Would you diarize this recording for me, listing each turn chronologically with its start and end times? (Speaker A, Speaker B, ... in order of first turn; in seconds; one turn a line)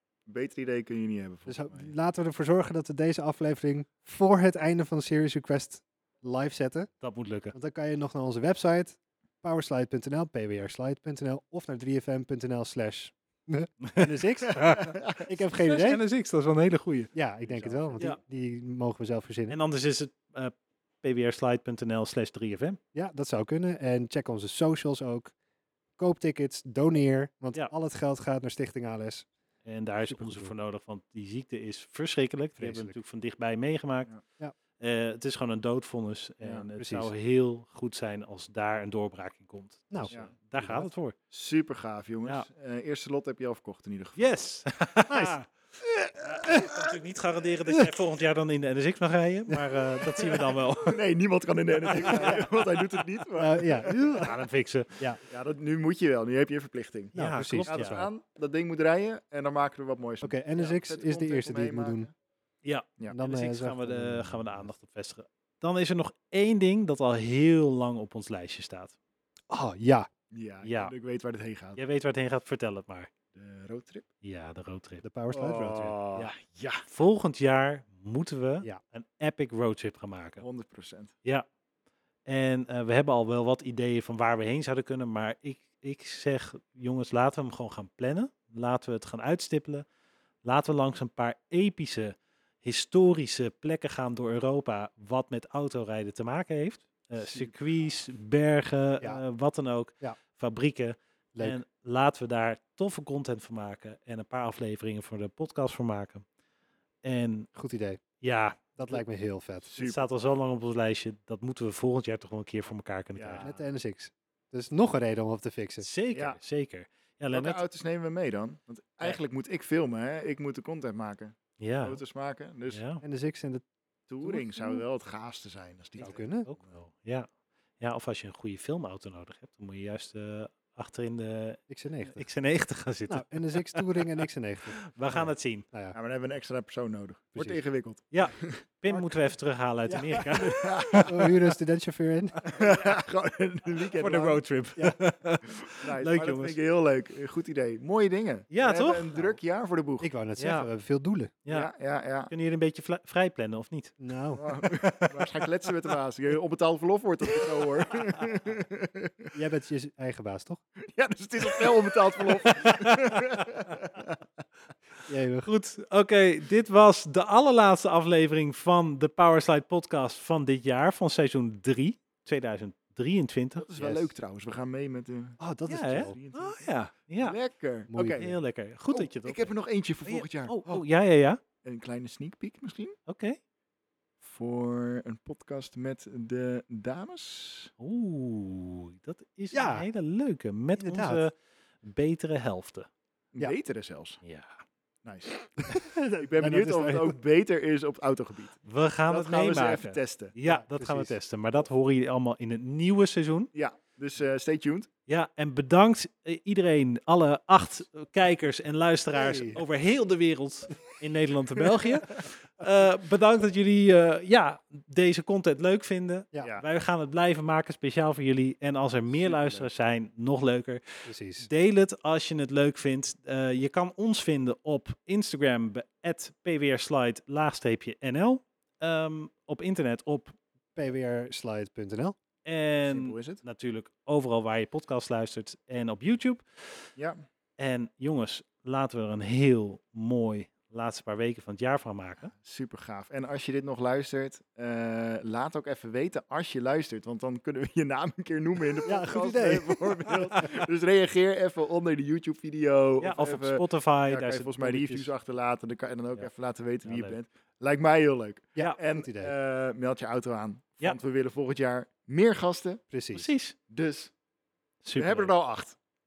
Speaker A: 0.3-1.9
Speaker B: 1.5-6.9
Speaker C: 7.0-7.5
Speaker B: 7.5-16.0
Speaker C: 13.8-17.1
Speaker A: 14.8-15.2
Speaker B: 17.1-19.6
Speaker A: 17.4-18.1
Speaker C: 19.5-22.8
Speaker B: 22.9-25.3
Speaker B: 26.0-29.3
Speaker C: 29.6-34.1
Speaker B: 30.0-30.5
Speaker B: 32.6-33.0
Speaker C: 34.8-41.1
Speaker B: 36.8-37.1
Speaker B: 39.9-40.9
Speaker A: 41.3-44.3
Speaker C: 44.2-45.5
Speaker B: 45.1-46.9
Speaker C: 46.2-51.0
Speaker A: 50.8-53.9
Speaker C: 51.9-52.9
Speaker B: 51.9-52.4
Speaker B: 53.4-54.4
Speaker C: 54.0-54.9
Speaker A: 55.3-62.1
Speaker B: 57.1-58.0
Speaker C: 57.1-58.1
Speaker B: 60.2-62.1
Speaker C: 62.6-68.9
Speaker B: 63.1-64.7
Speaker B: 69.5-70.1
Speaker A: 70.3-71.8
Speaker C: 70.6-70.9
Speaker C: 71.8-73.1
Speaker A: 73.3-74.0
Speaker C: 74.2-75.0
Speaker B: 75.0-76.0
Speaker A: 75.3-76.8
Speaker C: 76.2-80.4
Speaker A: 80.4-81.1
Speaker C: 82.3-89.8
Speaker C: 90.5-106.2
Speaker A: 97.2-97.5
Speaker C: 107.0-107.5
Speaker B: 107.5-108.0
Speaker C: 108.2-109.0
Speaker B: 108.8-109.7
Speaker A: 109.7-110.0
Speaker C: 109.8-113.5
Speaker A: 113.2-113.6
Speaker B: 113.4-115.9
Speaker C: 115.8-117.6
Speaker A: 117.3-122.8
Speaker C: 121.6-122.0
Speaker C: 122.7-123.0
Speaker B: 123.0-123.7
Speaker A: 124.1-126.2
Speaker B: 124.2-124.8
Speaker B: 126.0-126.5
Speaker C: 126.5-127.3
Speaker C: 127.8-134.1
Speaker B: 131.7-132.2
Speaker B: 133.1-135.9
Speaker C: 135.0-135.7
Speaker A: 135.9-138.6
Speaker C: 138.1-141.3
Speaker B: 139.9-142.4
Speaker A: 140.4-141.3
Speaker A: 142.4-144.4
Speaker C: 144.0-146.6
Speaker A: 145.6-150.1
Speaker C: 148.5-149.3
Speaker B: 150.0-151.3
Speaker C: 150.4-150.7
Speaker C: 151.4-151.7
Speaker A: 151.5-152.3
Speaker C: 152.3-153.9
Speaker B: 154.0-154.5
Speaker A: 154.4-159.3
Speaker C: 154.8-155.2
Speaker B: 159.3-160.6
Speaker A: 160.8-164.2
Speaker C: 162.5-163.5
Speaker B: 165.1-165.5
Speaker C: 165.5-173.9
Speaker A: 173.6-175.4
Speaker B: 173.8-174.0
Speaker B: 175.4-176.2
Speaker C: 175.7-177.4
Speaker A: 176.1-176.7
Speaker A: 177.2-178.4
Speaker B: 177.9-178.2
Speaker C: 178.2-179.5
Speaker A: 178.9-180.6
Speaker C: 180.1-181.4
Speaker A: 181.6-182.9
Speaker C: 183.1-183.4
Speaker A: 184.2-187.7
Speaker C: 187.8-191.3
Speaker B: 189.5-189.9
Speaker B: 190.8-191.2
Speaker C: 191.8-192.9
Speaker A: 193.3-194.2
Speaker C: 194.2-194.5
Speaker A: 195.0-200.3
Speaker B: 195.7-197.2
Speaker C: 198.7-203.5
Speaker B: 200.4-201.1
Speaker A: 203.5-204.9
Speaker C: 205.1-230.3
Speaker B: 209.1-209.6
Speaker A: 216.4-216.7
Speaker A: 219.1-219.7
Speaker B: 221.1-221.5
Speaker B: 230.8-232.2
Speaker C: 232.4-236.9
Speaker A: 232.8-233.4
Speaker A: 237.0-237.2
Speaker C: 237.6-242.3
Speaker A: 242.3-262.8
Speaker B: 248.9-250.1
Speaker C: 253.0-255.1
Speaker C: 256.9-257.2
Speaker B: 258.6-259.3
Speaker B: 262.9-263.3
Speaker C: 263.1-263.6
Speaker A: 263.7-264.1
Speaker C: 264.8-265.3
Speaker A: 264.9-265.8